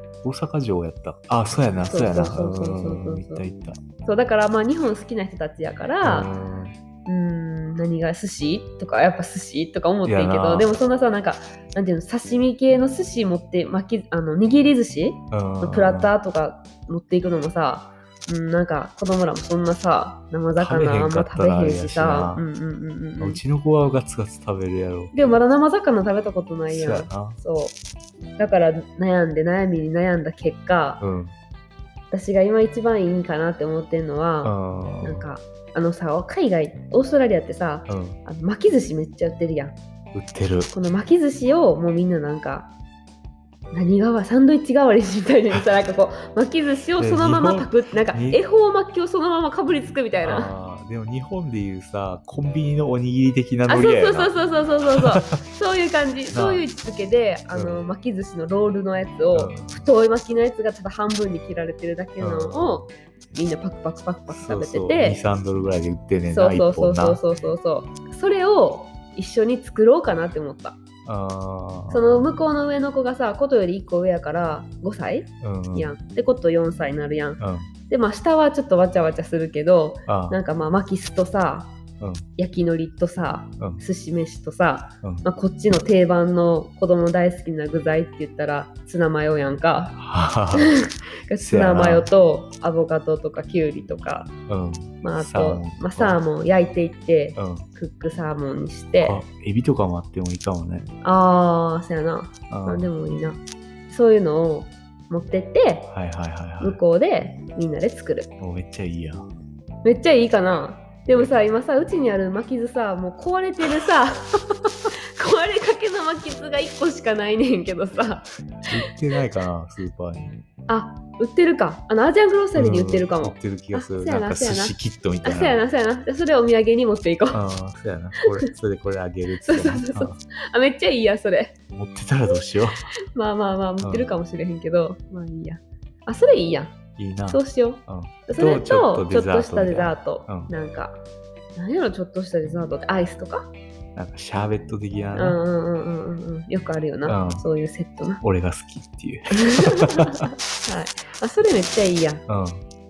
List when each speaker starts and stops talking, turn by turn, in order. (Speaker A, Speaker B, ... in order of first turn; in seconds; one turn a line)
Speaker A: 0.2-3.8
Speaker B: 1.9-3.5
Speaker B: 4.0-6.3
Speaker A: 6.0-6.8
Speaker B: 7.1-23.4
Speaker A: 10.0-10.8
Speaker A: 15.3-16.1
Speaker A: 20.6-22.4
Speaker A: 23.2-25.4
Speaker B: 25.1-27.8
Speaker A: 26.7-27.4
Speaker B: 28.4-31.0
Speaker A: 31.0-31.3
Speaker B: 32.1-39.8
Speaker A: 34.4-35.3
Speaker A: 37.9-38.2
Speaker A: 40.1-40.7
Speaker B: 40.7-42.7
Speaker B: 43.7-50.5
Speaker A: 47.0-48.4
Speaker A: 50.2-54.4
Speaker B: 53.7-65.2
Speaker A: 55.0-55.3
Speaker A: 56.3-56.6
Speaker A: 57.5-57.8
Speaker A: 59.3-59.9
Speaker A: 62.2-62.9
Speaker A: 64.3-67.2
Speaker B: 66.3-70.8
Speaker A: 71.0-72.3
Speaker B: 71.9-81.7
Speaker A: 75.4-76.0
Speaker A: 77.4-77.7
Speaker A: 80.1-80.4
Speaker A: 82.0-82.2
Speaker B: 82.4-90.0
Speaker A: 90.0-90.8
Speaker B: 90.5-94.3
Speaker A: 91.4-92.1
Speaker A: 94.5-96.2
Speaker B: 95.0-99.2
Speaker A: 97.4-97.7
Speaker A: 99.0-100.9
Speaker B: 101.0-105.9
Speaker A: 102.5-102.9
Speaker A: 105.9-106.8
Speaker B: 106.6-108.3
Speaker A: 108.4-109.3
Speaker B: 109.8-114.6
Speaker B: 115.2-118.7
Speaker A: 118.7-120.4
Speaker B: 120.7-127.4
Speaker A: 122.5-125.6
Speaker A: 127.3-130.2
Speaker B: 129.3-131.6
Speaker A: 131.7-132.9
Speaker B: 133.1-136.7
Speaker A: 133.8-134.1
Speaker A: 137.0-140.5
Speaker B: 137.3-141.0
Speaker B: 141.6-143.5
Speaker A: 144.0-145.4
Speaker B: 145.2-148.2
Speaker A: 147.1-147.4
Speaker A: 148.2-150.3
Speaker B: 149.3-152.2
Speaker A: 152.3-152.6